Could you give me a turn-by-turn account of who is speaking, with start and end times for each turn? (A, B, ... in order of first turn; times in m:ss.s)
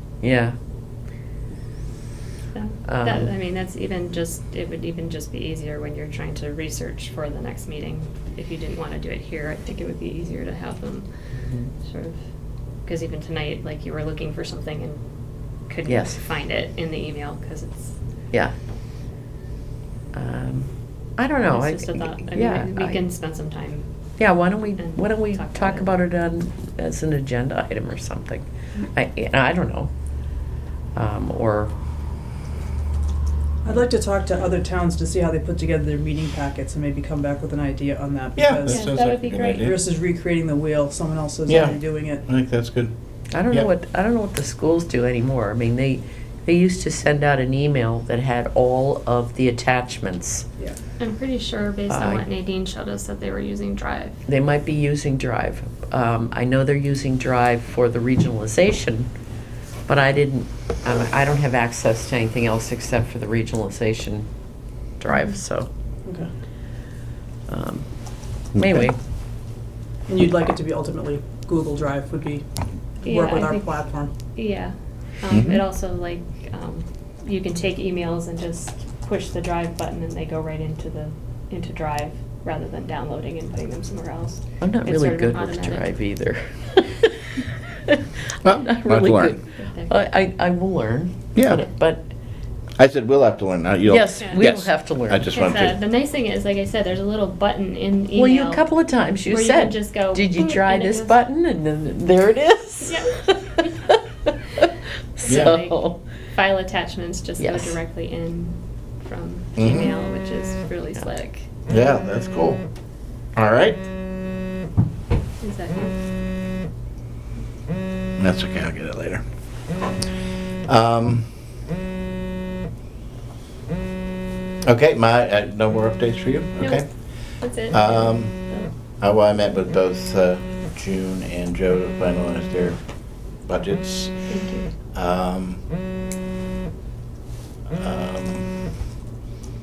0:00.2-0:00.6 A
0:02.5-0:11.1 B
0:02.9-0:03.3 A
0:11.4-0:11.7 A
0:11.8-0:12.2 B
0:12.8-0:15.0 B
0:15.7-0:18.0 B
0:15.8-0:16.2 A
0:20.1-0:23.0 A
0:21.4-0:23.8 B
0:24.2-0:29.9 A
0:24.8-0:25.8 B
0:30.9-0:31.7 A
0:33.6-0:39.0 C
0:38.4-0:39.8 D
0:38.6-0:39.7 B
0:39.6-0:42.2 C
0:41.5-0:42.9 D
0:43.3-0:50.4 A
0:51.0-0:54.2 B
0:51.9-0:52.2 A
0:54.3-0:59.1 A
0:59.9-1:04.3 A
1:05.0-1:05.7 A
1:07.5-1:07.8 A
1:08.5-1:09.0 A
1:10.1-1:12.4 C
1:13.0-1:25.9 B
1:13.0-1:14.1 C
1:15.3-1:15.6 D
1:24.6-1:32.1 A
1:28.4-1:29.4 D
1:29.6-1:30.0 B
1:31.4-1:31.6 D
1:32.8-1:35.8 D
1:33.8-1:35.3 A
1:34.2-1:34.4 B
1:35.3-1:38.6 B
1:38.1-1:44.6 A
1:39.3-1:41.2 B
1:42.9-1:43.7 B
1:45.2-1:46.0 A
1:45.2-1:51.5 B
1:45.3-1:45.6 D
1:47.4-1:47.8 A
1:49.6-1:49.9 D
1:51.7-1:52.6 D
1:53.3-1:53.8 D
1:55.4-1:55.9 B
1:58.2-1:59.2 D
2:00.7-2:01.3 D
2:04.6-2:06.9 D
2:06.6-2:06.8 B
2:07.4-2:08.7 B
2:07.7-2:08.3 D
2:09.0-2:12.8 D
2:13.4-2:14.2 D
2:14.3-2:14.7 B
2:14.9-2:15.6 D
2:17.8-2:18.5 D